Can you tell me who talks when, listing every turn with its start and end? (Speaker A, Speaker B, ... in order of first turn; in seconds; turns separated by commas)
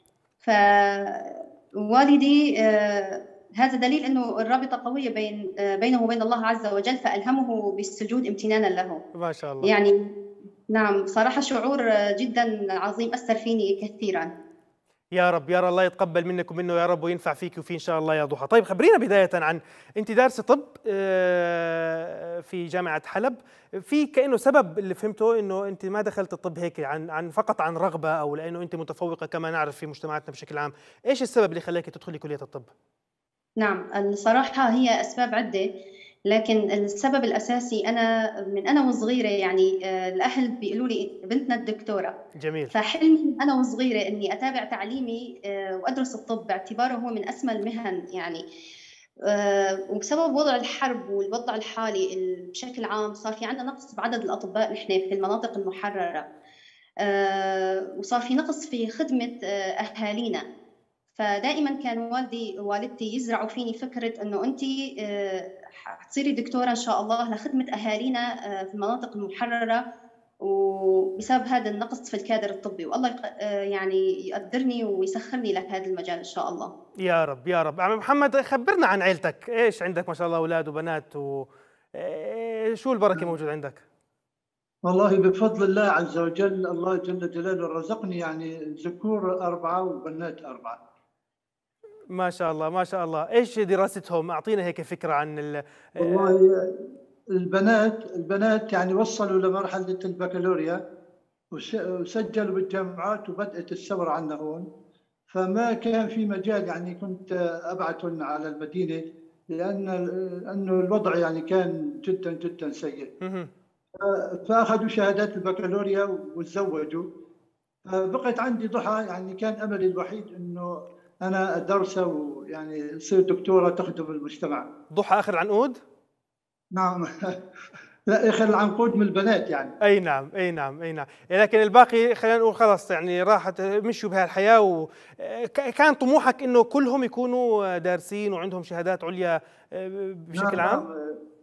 Speaker A: 0.4-9.0, Speaker B: 9.1-9.7, Speaker A: 9.6-9.9, Speaker A: 10.7-14.3, Speaker B: 15.1-32.7, Speaker A: 33.6-35.7, Speaker A: 36.3-42.1, Speaker B: 42.4-42.7, Speaker A: 42.7-48.4, Speaker A: 49.3-56.2, Speaker A: 57.0-60.4, Speaker A: 61.1-69.8, Speaker A: 70.4-76.7, Speaker B: 77.0-83.8, Speaker C: 84.8-90.8, Speaker B: 92.1-96.3, Speaker C: 96.0-96.7, Speaker C: 97.3-100.8, Speaker C: 101.5-104.6, Speaker C: 105.3-109.0, Speaker C: 109.5-113.1, Speaker B: 113.2-113.5, Speaker C: 114.0-117.0, Speaker C: 117.9-120.7, Speaker C: 121.2-124.7, Speaker B: 124.9-125.8, Speaker C: 126.7-127.1, Speaker C: 128.1-129.7, Speaker B: 129.8-140.8, Speaker C: 140.3-141.1